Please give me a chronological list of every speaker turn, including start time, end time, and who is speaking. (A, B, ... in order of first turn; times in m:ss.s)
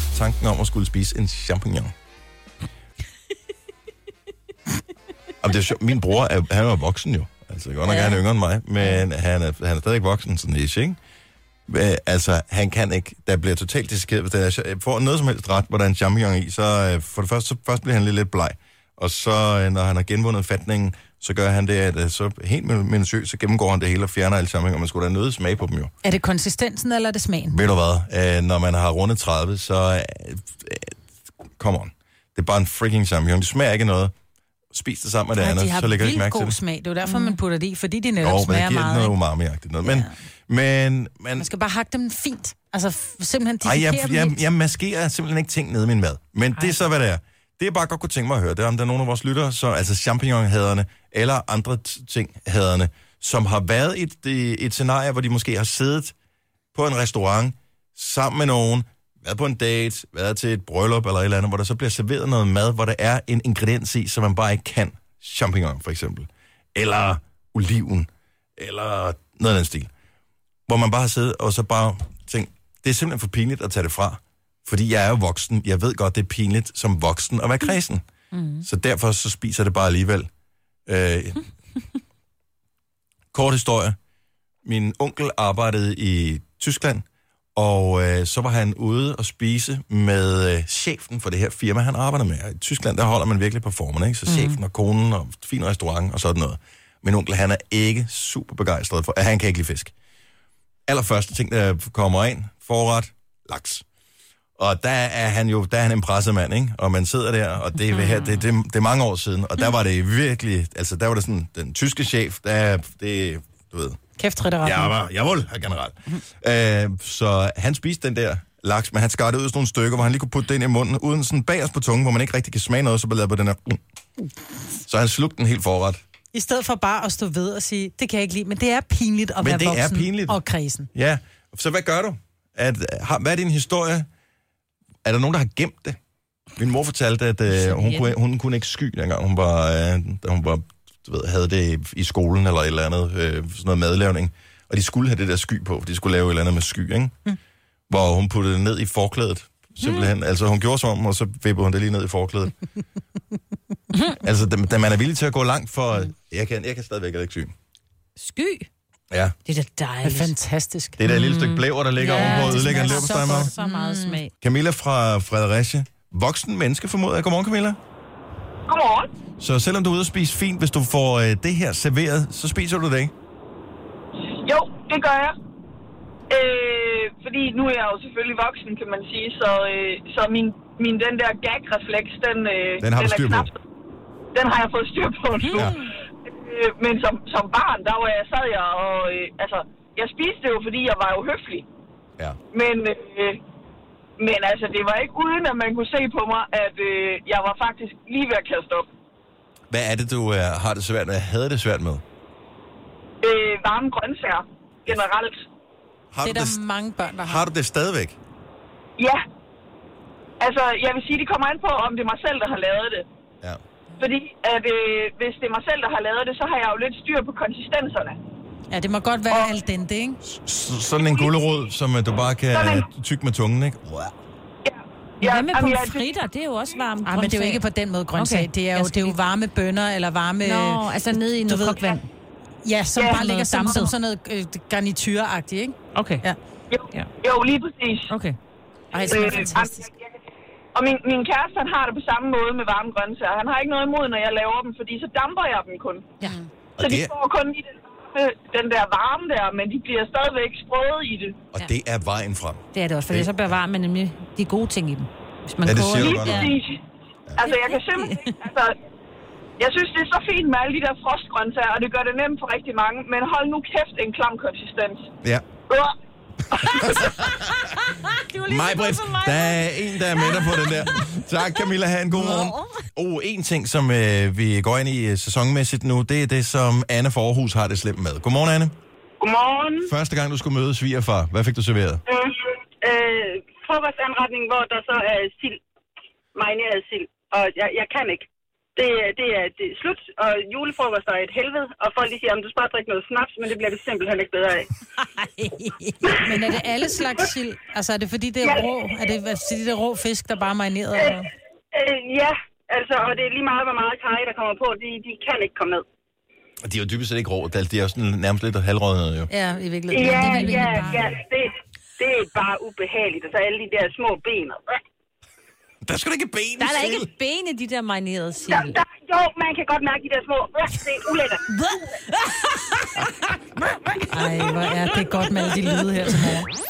0:00.1-0:01.9 A
0:05.4-0:11.0 A
0:11.7-0:25.9 A
0:26.0-0:27.6 B
0:27.5-0:31.0 A
0:31.6-0:34.1 A
0:34.7-0:36.6 A
0:35.4-0:39.2 B
0:38.2-0:41.5 A
0:41.4-0:44.4 B
0:43.6-0:56.2 A
0:56.7-1:09.9 A
1:10.7-1:18.0 A
1:18.6-1:20.3 A
1:20.9-1:21.4 A
1:23.3-1:24.0 A
1:24.6-1:27.0 A
1:27.6-1:39.9 A
1:34.3-1:34.5 C
1:40.9-1:43.8 A
1:44.6-1:54.0 A
1:54.2-1:54.9 B
1:54.6-2:03.8 A
2:04.8-2:06.0 A
2:06.3-2:10.9 B
2:09.4-2:10.4 A
2:10.9-2:14.1 A
2:15.0-2:16.0 A
2:16.6-2:27.3 A
2:27.9-2:32.6 A
2:33.9-2:34.2 C
2:34.2-2:37.5 A
2:38.2-2:38.7 C
2:39.4-2:40.3 C
2:40.0-2:41.0 B
2:41.0-2:43.5 A
2:41.0-2:44.3 C
2:42.0-2:44.2 B
2:44.4-2:47.8 A
2:48.7-2:49.1 D
2:49.4-2:53.1 A
2:54.4-2:55.4 D
2:56.3-3:03.6 D
3:02.8-3:03.5 A
3:04.3-3:11.7 D
3:05.5-3:05.9 A
3:12.5-3:13.4 D
3:14.2-3:18.9 D
3:19.7-3:22.0 A
3:23.2-3:25.4 D
3:26.1-3:26.6 A
3:26.2-3:27.5 B
3:27.2-3:28.2 A
3:30.4-3:33.0 D
3:34.0-3:38.2 D
3:38.7-3:40.2 B
3:40.2-3:44.1 A
3:41.0-3:41.3 D
3:42.5-3:42.9 D
3:44.7-3:47.0 D
3:45.2-3:49.2 C
3:47.0-3:52.0 B
3:50.4-3:52.1 C
3:52.6-3:56.4 B
3:53.0-3:53.9 D
3:53.3-3:53.7 C
3:55.9-3:56.2 C
3:56.7-3:58.1 D
3:58.1-3:58.4 C
3:58.9-3:59.9 B
3:59.1-4:00.1 D
4:00.8-4:06.1 D
4:06.8-4:07.1 A
4:06.8-4:11.4 D
4:11.5-4:13.6 A
4:12.7-4:16.5 C
4:15.6-4:16.5 A
4:15.9-4:16.8 D
4:17.4-4:18.8 D
4:17.4-4:18.4 C
4:19.6-4:25.1 D
4:26.5-4:27.2 D
4:26.7-4:27.4 A
4:28.2-4:28.6 C
4:28.5-4:38.7 A
4:29.2-4:29.5 C
4:39.2-4:39.9 E
4:39.8-4:42.0 A
4:42.1-4:45.6 E
4:46.4-4:54.7 E
4:55.0-4:55.9 C
4:56.1-4:56.4 E
4:56.2-5:01.3 B
5:01.7-5:05.8 E
5:06.6-5:09.3 A
5:09.3-5:11.1 B
5:09.9-5:14.8 E
5:15.8-5:17.1 A
5:16.6-5:18.8 C
5:18.5-5:21.4 E
5:21.5-5:22.4 C
5:24.1-5:26.5 B